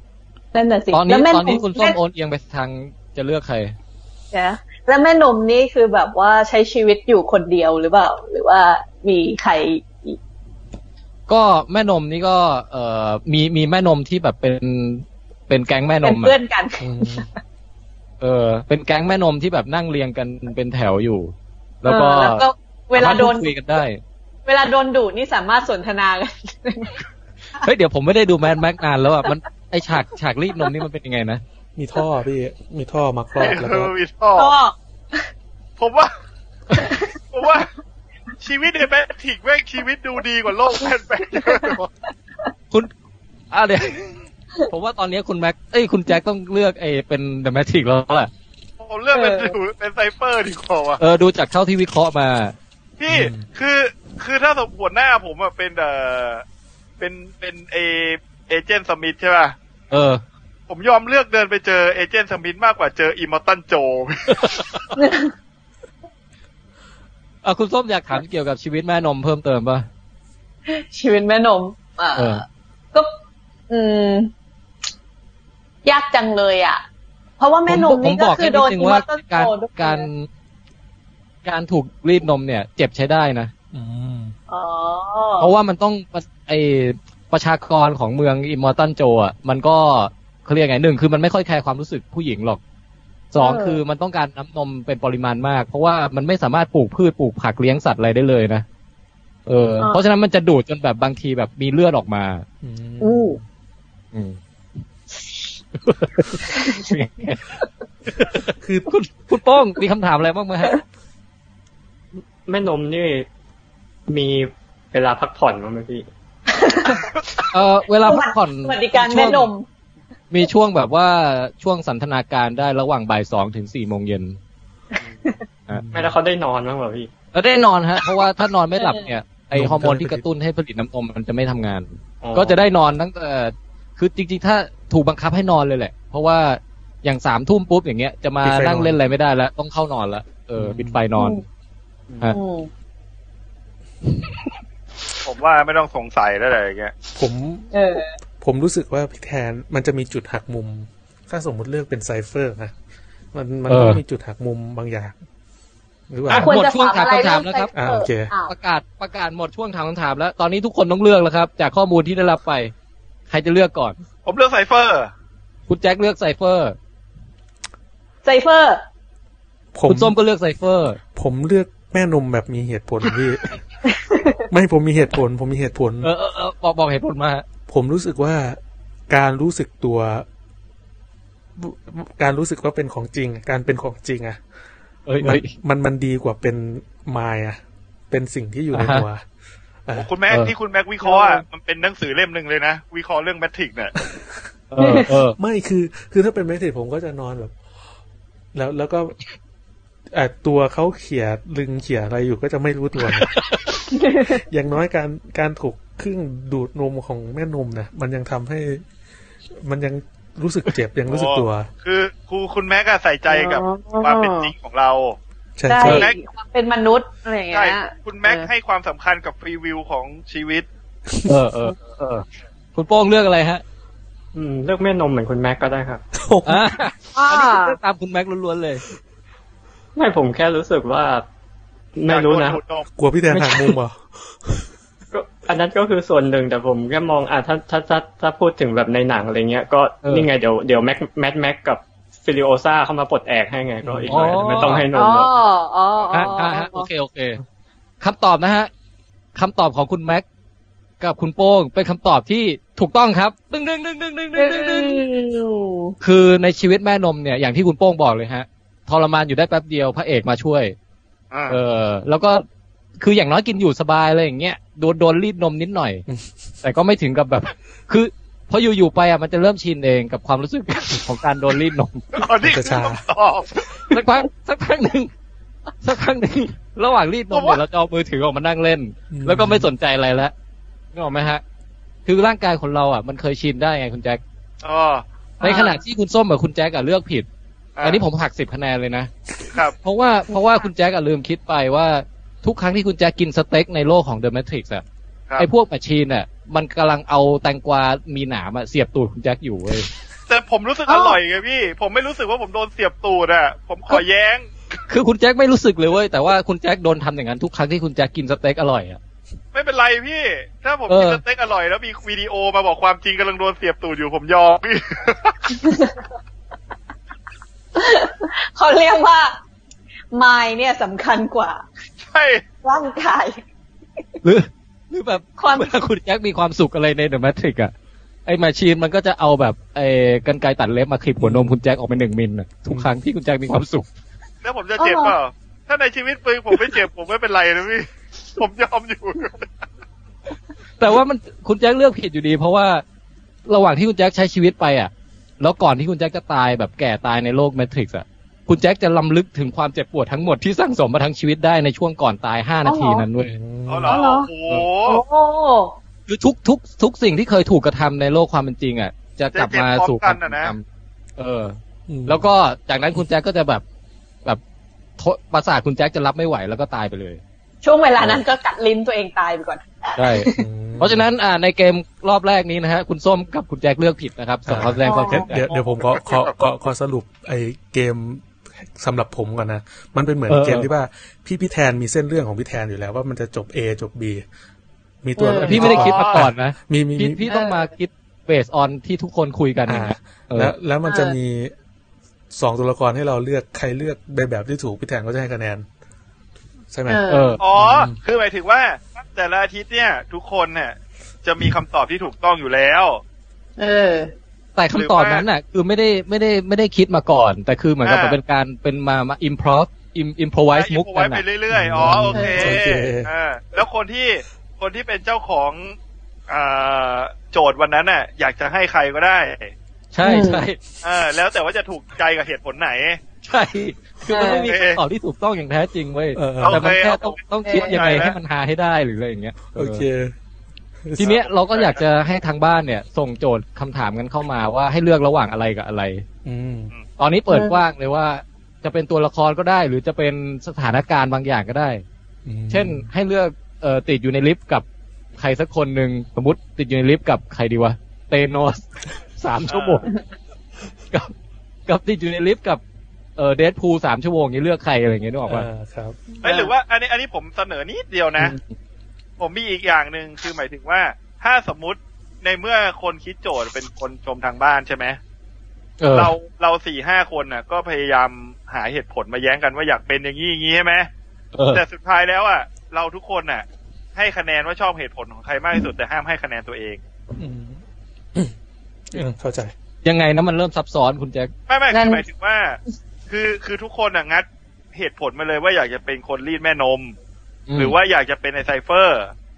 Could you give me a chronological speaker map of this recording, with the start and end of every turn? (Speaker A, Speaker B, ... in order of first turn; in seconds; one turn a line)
Speaker A: 0.5-2.0
Speaker B: 0.9-3.8
Speaker A: 4.3-10.2
Speaker B: 11.3-16.4
Speaker A: 16.0-17.2
Speaker C: 16.8-17.3
Speaker B: 18.2-22.4
Speaker A: 21.9-23.5
Speaker B: 23.0-24.0
Speaker A: 24.5-27.0
Speaker B: 27.6-31.4
Speaker C: 31.8-33.9
Speaker D: 33.4-34.5
Speaker A: 34.4-35.3
Speaker D: 35.8-36.1
Speaker D: 37.3-37.7
Speaker D: 38.4-41.9
Speaker A: 41.4-41.7
Speaker B: 43.5-48.3
Speaker D: 48.8-51.0
Speaker A: 49.1-49.5
Speaker B: 51.0-52.5
Speaker D: 53.0-56.4
Speaker C: 53.1-53.5
Speaker D: 57.0-59.6
Speaker B: 59.9-60.2
Speaker D: 60.7-64.8
Speaker B: 64.3-64.8
Speaker A: 65.0-65.3
Speaker B: 67.4-69.9
Speaker A: 70.7-72.4
Speaker B: 72.2-72.4
Speaker A: 73.7-74.3
Speaker A: 75.8-76.8
Speaker A: 77.4-80.1
Speaker B: 77.7-80.3
Speaker B: 81.4-83.5
Speaker C: 83.7-84.3
Speaker A: 84.5-85.5
Speaker B: 85.4-92.6
Speaker B: 93.3-98.7
Speaker A: 93.4-93.8
Speaker B: 99.5-102.5
Speaker C: 102.6-103.4
Speaker A: 103.0-103.4
Speaker B: 104.1-104.4
Speaker B: 105.8-107.6
Speaker C: 108.5-108.9
Speaker B: 108.9-110.8
Speaker E: 112.5-113.3
Speaker E: 114.1-116.1
Speaker A: 116.5-117.5
Speaker B: 117.5-119.5
Speaker A: 118.0-119.7
Speaker B: 120.3-124.4
Speaker C: 125.7-126.2
Speaker E: 125.9-127.1
Speaker B: 127.3-141.4
Speaker A: 128.8-129.1
Speaker C: 129.5-130.2
Speaker E: 132.2-132.6
Speaker C: 138.4-139.0
Speaker C: 140.6-141.0
Speaker A: 141.2-141.4
Speaker A: 142.3-142.7
Speaker D: 145.2-146.9
Speaker C: 147.2-147.7
Speaker A: 147.7-148.2
Speaker C: 148.4-152.7
Speaker C: 153.3-155.2
Speaker B: 153.7-154.0
Speaker C: 156.1-156.6
Speaker B: 156.3-157.7
Speaker A: 156.3-158.5
Speaker C: 157.7-158.3
Speaker B: 158.5-162.7
Speaker B: 163.3-164.0
Speaker D: 164.3-165.1
Speaker B: 165.7-166.8
Speaker A: 168.2-168.8
Speaker C: 169.7-170.2
Speaker B: 169.9-171.0
Speaker C: 171.1-173.5
Speaker A: 173.9-174.4
Speaker C: 174.5-176.1
Speaker B: 176.0-177.4
Speaker C: 177.7-180.3
Speaker C: 181.6-184.4
Speaker B: 185.1-185.5
Speaker C: 185.2-189.2
Speaker B: 188.7-189.1
Speaker D: 189.9-193.9
Speaker B: 190.3-190.5
Speaker A: 191.0-191.4
Speaker B: 194.7-195.4
Speaker A: 194.8-195.1
Speaker C: 195.4-197.5
Speaker C: 198.5-199.2
Speaker C: 200.1-203.3
Speaker B: 203.1-203.7
Speaker A: 203.9-204.4
Speaker C: 204.3-208.8
Speaker C: 209.5-211.7
Speaker D: 211.1-215.2
Speaker A: 213.3-214.5
Speaker C: 215.6-216.0
Speaker A: 215.7-218.5
Speaker D: 215.8-216.2
Speaker D: 217.5-220.7
Speaker C: 221.1-221.3
Speaker B: 221.3-223.6
Speaker E: 224.3-226.0
Speaker C: 226.1-226.8
Speaker B: 226.4-228.8
Speaker A: 227.2-227.8
Speaker E: 230.0-231.2
Speaker E: 231.9-232.6
Speaker D: 232.1-232.9
Speaker C: 233.0-234.7
Speaker E: 233.3-233.7
Speaker E: 235.1-245.3
Speaker C: 243.8-244.8
Speaker B: 244.1-244.9
Speaker A: 244.9-246.9
Speaker B: 246.1-247.4
Speaker B: 248.0-248.7
Speaker B: 249.3-250.3
Speaker B: 251.0-255.0
Speaker A: 254.4-255.9
Speaker B: 256.0-260.8
Speaker D: 261.3-261.6
Speaker B: 261.5-262.4
Speaker B: 263.0-266.1
Speaker B: 266.6-272.1
Speaker D: 272.1-273.9
Speaker C: 272.4-273.0
Speaker B: 273.9-275.1
Speaker B: 275.8-280.3
Speaker D: 277.3-277.6
Speaker C: 279.1-279.7
Speaker B: 280.9-281.4
Speaker B: 282.1-284.2
Speaker D: 284.6-285.0
Speaker A: 285.4-285.8
Speaker B: 285.4-287.3
Speaker D: 287.8-288.0
Speaker B: 287.8-289.1
Speaker D: 289.5-289.8
Speaker B: 289.8-294.8
Speaker B: 295.4-299.9
Speaker D: 300.3-304.5
Speaker A: 300.9-301.2
Speaker B: 304.9-309.0
Speaker D: 309.5-315.6
Speaker B: 310.9-311.2
Speaker A: 315.6-316.0
Speaker A: 317.8-319.4
Speaker A: 320.1-321.6
Speaker D: 322.1-322.4
Speaker A: 322.6-323.4
Speaker B: 324.2-327.7
Speaker A: 325.4-325.7
Speaker B: 328.3-333.9
Speaker C: 331.2-331.6
Speaker D: 334.4-339.5
Speaker A: 334.8-335.2
Speaker B: 340.8-342.8
Speaker B: 343.5-353.4
Speaker A: 352.6-353.1
Speaker C: 353.2-354.0
Speaker D: 353.7-355.0
Speaker A: 353.9-354.3
Speaker A: 354.9-355.8
Speaker B: 356.1-360.6
Speaker D: 359.3-360.5
Speaker B: 361.2-363.6
Speaker C: 361.9-362.3
Speaker B: 365.0-367.2
Speaker A: 367.6-370.4
Speaker B: 370.0-375.4
Speaker C: 370.4-371.1
Speaker C: 374.5-384.2
Speaker A: 374.8-375.3
Speaker D: 375.5-376.5
Speaker B: 380.3-380.7
Speaker C: 385.0-387.2
Speaker A: 385.2-385.8
Speaker B: 385.4-390.5
Speaker D: 385.6-386.2
Speaker A: 387.3-387.7
Speaker C: 389.7-391.5
Speaker A: 390.9-391.2
Speaker C: 392.3-395.7
Speaker C: 396.7-398.0
Speaker A: 396.9-397.4
Speaker B: 397.1-397.4
Speaker D: 397.4-403.0
Speaker A: 403.6-404.1
Speaker B: 404.6-411.2
Speaker D: 404.7-405.3
Speaker D: 407.8-408.2
Speaker D: 410.5-415.8
Speaker C: 411.5-413.1
Speaker A: 412.1-412.5
Speaker D: 416.3-419.5
Speaker B: 419.9-420.6
Speaker A: 420.0-420.4
Speaker D: 420.8-423.0
Speaker B: 423.2-429.8
Speaker A: 424.1-424.5
Speaker D: 424.4-424.8
Speaker C: 426.2-426.7
Speaker D: 426.4-428.2
Speaker A: 427.4-427.8
Speaker C: 429.5-430.1
Speaker B: 431.0-436.1
Speaker D: 431.0-431.8
Speaker C: 436.2-436.7
Speaker B: 437.0-441.8
Speaker A: 437.3-437.6
Speaker C: 442.3-442.9
Speaker B: 442.5-444.6
Speaker B: 445.2-449.9
Speaker D: 449.5-449.8
Speaker B: 451.7-452.6
Speaker B: 453.2-455.5
Speaker C: 455.3-456.0
Speaker A: 456.1-456.5
Speaker D: 456.2-458.4
Speaker B: 458.2-458.6
Speaker D: 459.2-465.0
Speaker B: 465.8-466.1
Speaker D: 465.9-470.9
Speaker B: 471.3-471.6
Speaker D: 471.5-476.8
Speaker C: 477.2-477.6
Speaker C: 478.9-479.5
Speaker B: 479.8-481.3
Speaker D: 481.5-486.9
Speaker A: 481.7-482.0
Speaker B: 487.5-487.8
Speaker D: 487.6-489.1